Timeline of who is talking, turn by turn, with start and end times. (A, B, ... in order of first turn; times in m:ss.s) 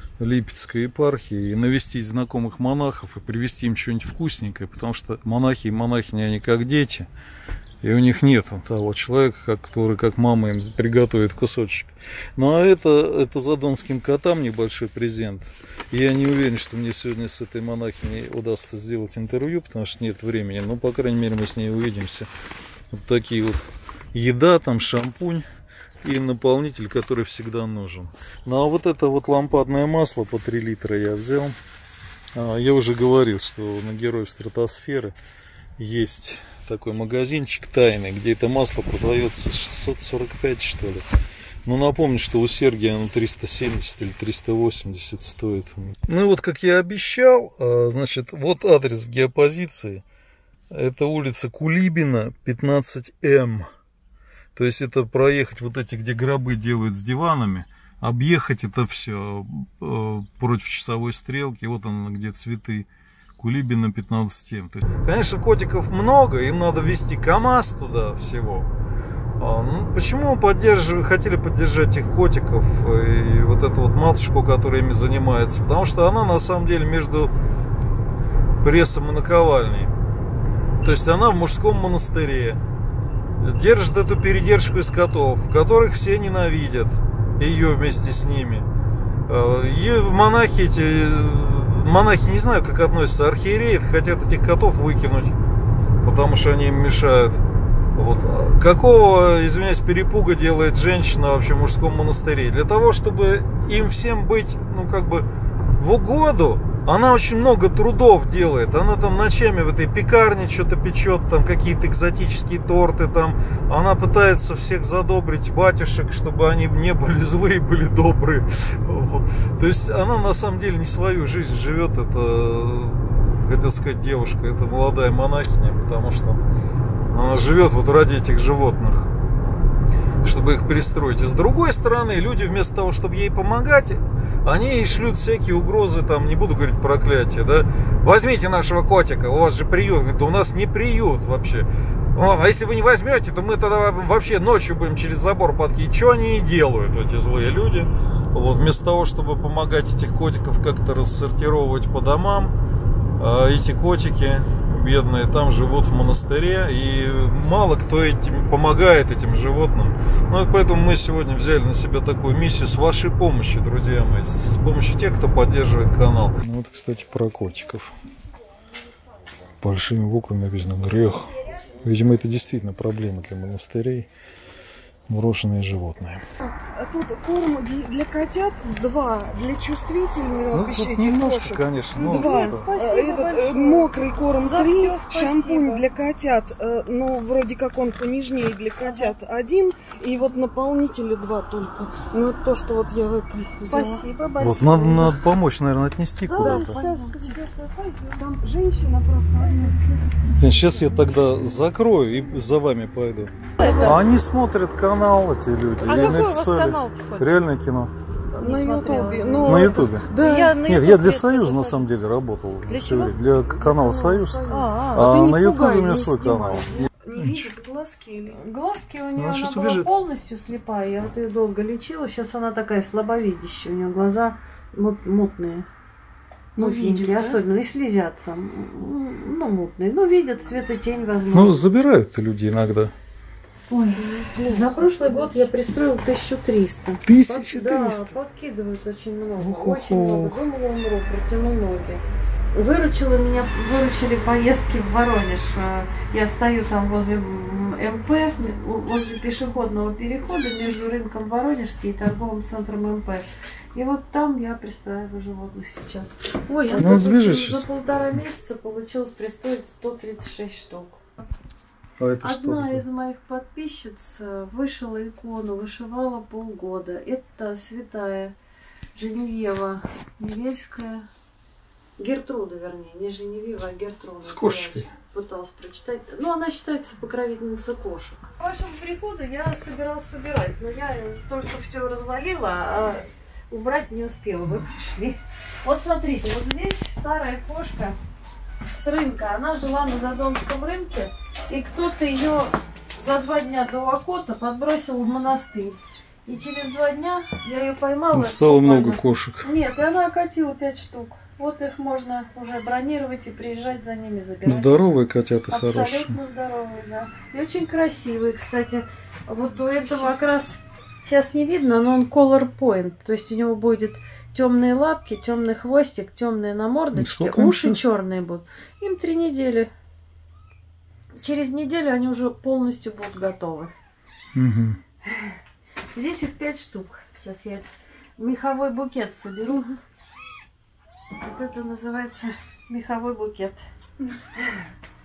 0:00.2-0:07.1 A
0:07.8-0:22.3 A
0:22.9-0:25.5 A
0:26.0-0:31.6 A
0:32.4-0:35.2 A
0:35.8-0:41.1 A
0:41.6-0:50.0 A
0:50.7-0:53.7 A
0:54.6-1:08.7 A
1:09.4-1:17.3 A
1:18.6-1:19.9 A
1:20.8-1:22.6 A
1:23.4-1:28.7 A
1:29.3-1:35.4 A
1:36.0-1:37.4 A
1:38.0-2:06.4 A
2:07.1-2:09.1 A
2:10.2-2:32.6 A
2:33.2-2:48.0 A
2:49.6-2:54.1 A
2:55.1-2:56.2 A
2:56.7-3:14.0 B
3:00.5-3:02.7 A
3:02.0-3:03.9 C
3:04.4-3:05.8 C
3:13.7-3:15.2 C
3:14.4-3:16.8 A
3:16.3-3:19.9 B
3:16.4-3:17.3 C
3:20.4-3:27.9 A
3:23.6-3:24.0 C
3:25.8-3:27.4 C
3:28.3-3:30.6 B
3:28.4-3:31.9 C
3:29.4-3:30.1 A
3:30.6-3:37.5 A
3:32.7-3:33.2 C
3:33.5-3:38.4 B
3:34.1-3:35.1 C
3:38.3-3:45.7 C
3:39.2-3:39.9 A
3:46.6-3:51.7 C
3:46.6-3:47.4 B
3:51.3-3:52.9 A
3:53.7-4:21.0 C
3:54.0-3:55.4 B
3:57.0-3:58.2 A
3:59.4-4:00.4 A
4:16.5-4:17.0 B
4:16.8-4:17.7 A
4:22.0-4:22.8 A
4:22.2-4:28.3 C
4:29.0-4:31.1 C
4:32.0-4:48.0 C
4:34.2-4:34.9 A
4:48.7-5:04.8 C
4:58.1-4:59.5 A
5:04.4-5:06.2 A
5:05.5-5:19.7 C
5:16.9-5:17.8 A
5:21.2-5:23.7 C
5:24.4-5:24.8 A
5:25.1-5:25.4 C
5:25.9-5:29.8 C
5:31.2-5:33.6 C
5:34.3-5:34.7 C